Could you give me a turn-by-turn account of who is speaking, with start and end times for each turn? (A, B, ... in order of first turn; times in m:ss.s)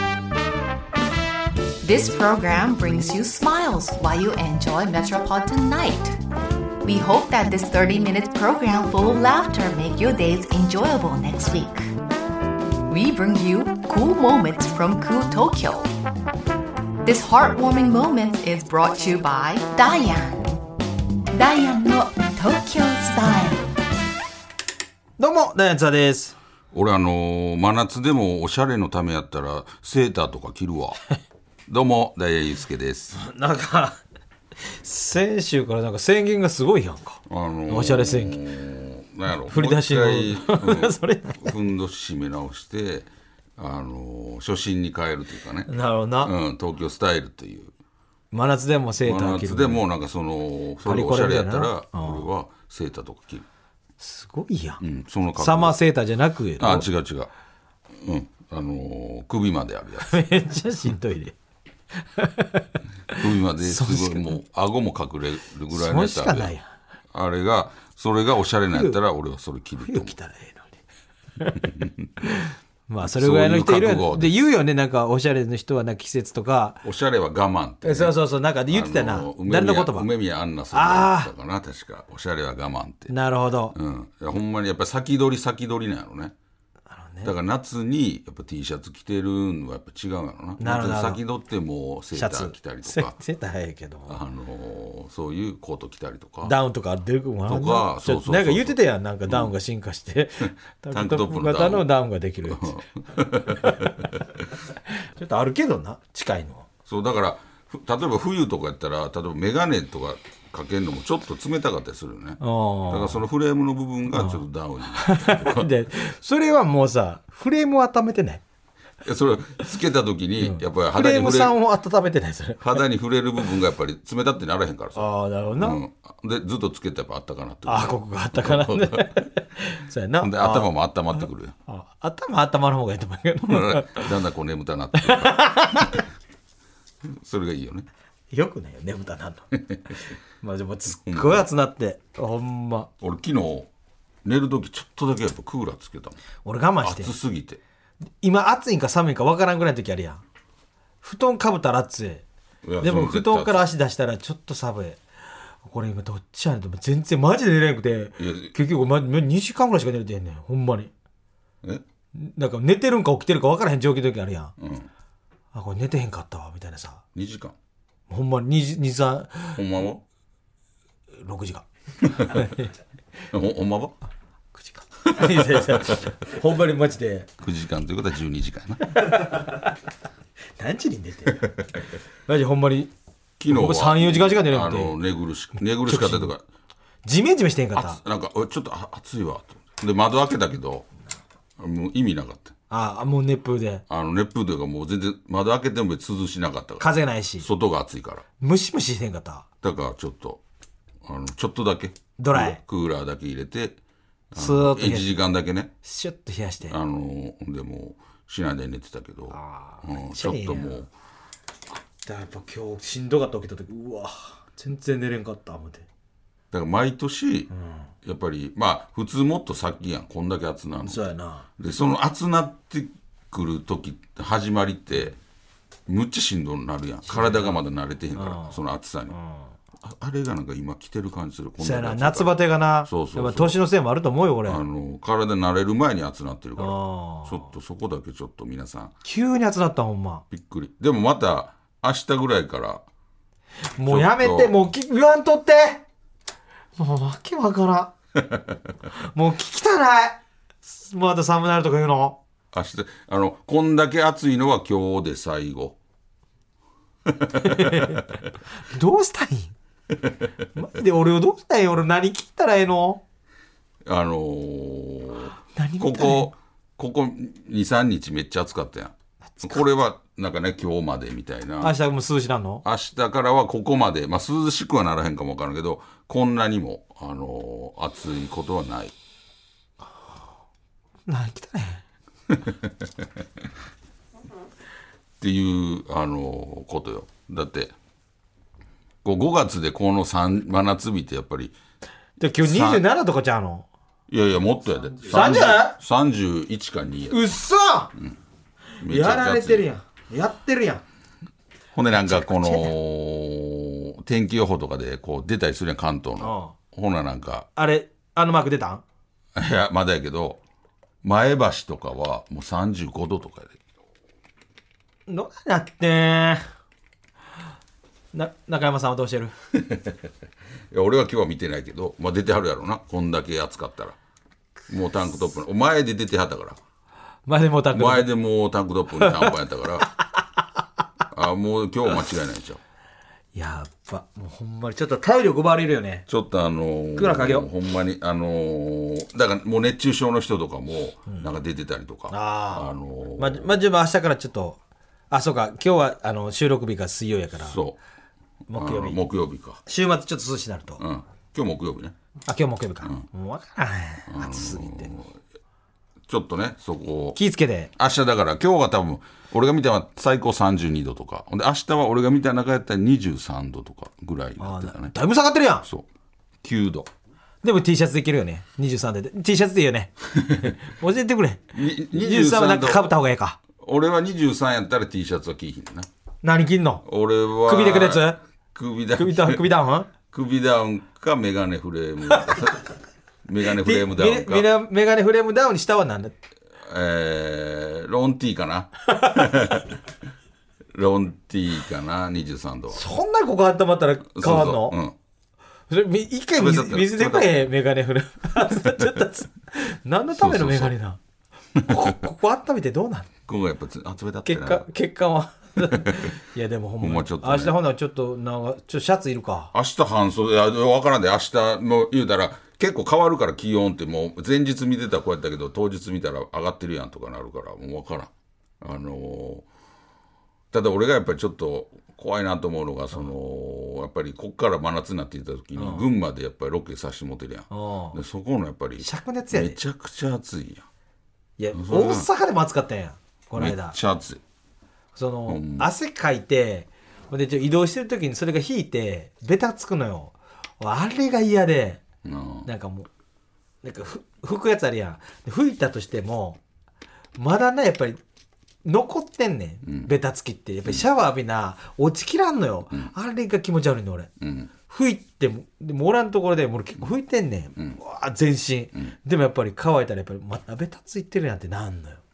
0:01.8-0:06.2 A
0:06.8-0:11.9 A
0:12.9-0:15.9 A
0:17.0-0:20.5 A
0:21.3-0:23.6 A
0:25.2-0:26.4 B
0:26.7-0:31.0 C
0:31.7-0:33.2 C
0:33.1-0:34.0 B
0:34.7-0:38.4 B
0:37.3-0:45.7 C
0:39.5-0:41.6 B
0:45.7-0:46.3 B
0:46.2-0:47.7 C
0:48.3-0:49.8 B
0:49.0-0:53.5 C
0:50.8-0:52.3 B
0:54.0-0:54.8 B
0:54.8-0:55.8 C
0:55.4-0:56.8 B
0:56.6-0:57.3 C
0:57.9-1:00.2 C
1:00.0-1:01.3 B
1:02.0-1:04.4 B
1:03.1-1:06.5 C
1:05.7-1:06.7 B
1:07.1-1:10.1 C
1:08.7-1:09.0 B
1:09.8-1:10.8 B
1:11.4-1:16.8 B
1:11.6-1:12.1 C
1:13.0-1:14.5 C
1:16.8-1:23.1 C
1:17.8-1:20.1 B
1:20.7-1:21.3 B
1:23.1-1:23.8 B
1:23.7-1:26.3 C
1:26.9-1:27.3 B
1:27.2-1:33.2 C
1:30.6-1:31.2 B
1:32.1-1:34.2 B
1:34.1-1:36.5 C
1:36.4-1:42.7 B
1:37.5-1:39.5 C
1:40.9-1:41.9 C
1:42.5-1:44.2 C
1:43.5-1:44.0 B
1:44.9-1:46.7 B
1:46.8-1:55.7 C
1:52.4-1:53.2 B
1:54.1-1:54.4 B
1:54.9-1:58.4 B
1:59.0-2:01.6 C
2:00.4-2:02.8 B
2:02.6-2:09.2 C
2:05.0-2:05.8 B
2:07.6-2:10.7 B
2:10.2-2:11.5 C
2:11.7-2:14.1 B
2:13.4-2:16.0 C
2:15.0-2:16.0 B
2:17.0-2:17.9 C
2:18.3-2:19.5 B
2:20.4-2:22.9 B
2:21.0-2:21.4 C
2:23.0-2:23.7 C
2:24.2-2:26.2 C
2:26.4-2:27.1 B
2:26.8-2:27.6 C
2:28.2-2:30.2 B
2:31.0-2:32.2 B
2:32.6-2:33.7 C
2:32.8-2:35.0 B
2:35.6-2:40.9 B
2:38.2-2:38.5 C
2:42.1-2:44.5 B
2:44.6-2:44.9 C
2:45.5-2:47.0 B
2:47.1-2:47.5 C
2:48.1-2:49.6 B
2:49.5-2:50.0 C
2:51.2-2:52.7 B
2:52.1-2:52.5 C
2:53.3-2:54.0 C
2:54.5-2:57.3 B
2:55.2-2:56.1 C
2:57.4-2:59.0 C
2:59.0-2:59.7 B
3:00.6-3:01.6 B
3:02.3-3:02.9 B
3:03.4-3:06.4 C
3:03.5-3:05.0 B
3:05.8-3:06.3 B
3:07.0-3:08.0 B
3:07.7-3:10.9 C
3:11.6-3:12.5 C
3:12.7-3:13.8 B
3:13.9-3:18.2 C
3:16.8-3:17.5 B
3:18.4-3:19.4 B
3:19.6-3:20.4 C
3:21.0-3:23.8 C
3:22.2-3:22.6 B
3:24.3-3:25.7 C
3:24.3-3:25.2 B
3:25.8-3:26.8 B
3:26.7-3:30.9 C
3:29.3-3:30.8 B
3:32.0-3:35.9 B
3:36.5-3:37.5 C
3:37.5-3:37.9 B
3:38.0-3:41.1 C
3:40.8-3:41.5 B
3:41.6-3:45.2 C
3:45.9-3:49.2 C
3:47.1-3:47.6 B
3:48.1-3:48.6 B
3:49.1-3:49.4 B
3:49.8-3:53.6 C
3:51.6-3:54.6 B
3:54.5-3:58.9 C
3:56.6-3:57.5 B
3:59.0-4:00.2 B
4:00.3-4:02.8 C
4:03.7-4:05.8 B
4:03.8-4:04.6 C
4:06.8-4:07.9 B
4:08.9-4:12.2 B
4:12.5-4:15.8 C
4:17.1-4:18.0 C
4:17.3-4:19.5 B
4:20.5-4:23.0 B
4:23.8-4:31.7 C
4:25.5-4:26.3 B
4:31.6-4:32.6 B
4:32.6-4:38.9 C
4:41.1-4:41.8 B
4:45.2-4:47.7 C
4:49.0-4:51.5 C
4:52.2-4:53.7 B
4:52.4-4:52.8 C
4:54.1-4:57.3 C
4:55.1-4:55.8 B
4:57.1-4:57.9 B
4:58.8-4:59.7 C
4:58.8-5:00.8 B
5:01.7-5:07.5 C
5:02.1-5:02.7 B
5:06.2-5:06.5 B
5:07.6-5:08.8 B
5:09.3-5:10.4 C
5:11.0-5:13.6 C
5:15.1-5:16.5 B
5:18.1-5:19.3 B
5:19.5-5:19.9 C
5:20.7-5:24.0 C
5:24.7-5:26.6 C
5:27.2-5:28.1 B
5:27.7-5:29.9 C
5:29.0-5:29.3 B
5:31.1-5:32.6 C
5:33.3-5:36.1 B
5:36.1-5:43.6 C
5:37.0-5:37.5 B
5:42.1-5:44.6 B
5:45.1-5:47.6 B
5:47.4-5:47.8 C
5:48.5-5:49.0 B
5:48.5-5:49.6 C
5:49.6-5:50.8 B
5:50.8-5:51.9 C
5:52.2-5:55.0 B
5:54.1-5:55.2 C
5:56.1-5:57.2 C
5:57.1-5:57.7 B
5:57.8-6:04.9 C
6:04.4-6:05.6 B
6:06.4-6:06.9 C
6:07.4-6:13.4 B
6:11.5-6:12.9 C
6:13.6-6:15.9 C
6:16.2-6:16.8 B
6:16.8-6:19.5 C
6:17.4-6:18.2 B
6:18.9-6:19.9 B
6:20.0-6:22.6 C
6:23.2-6:24.5 C
6:23.5-6:26.1 B
6:26.6-6:29.7 C
6:30.7-6:32.8 C
6:32.7-6:34.8 B
6:34.1-6:35.0 C
6:35.7-6:41.0 B
6:36.4-6:37.4 C
6:38.7-6:39.0 C
6:40.2-6:40.7 C
6:41.6-6:41.9 C
6:41.6-6:43.1 B
6:43.3-6:44.7 C
6:44.2-6:49.5 B
6:45.6-6:46.1 C
6:46.8-6:47.6 C
6:49.5-6:59.4 C
7:00.5-7:10.6 C
7:05.5-7:05.8 B
7:07.5-7:08.0 B
7:08.8-7:09.6 B
7:11.4-7:13.8 B
7:11.5-7:12.1 C
7:13.3-7:14.2 C
7:14.9-7:21.8 B
7:15.3-7:15.7 C
7:22.0-7:22.5 C
7:22.4-7:22.9 B
7:23.6-7:26.4 B
7:27.2-7:28.0 B
7:28.6-7:34.1 B
7:34.2-7:34.5 C
7:34.7-7:42.0 B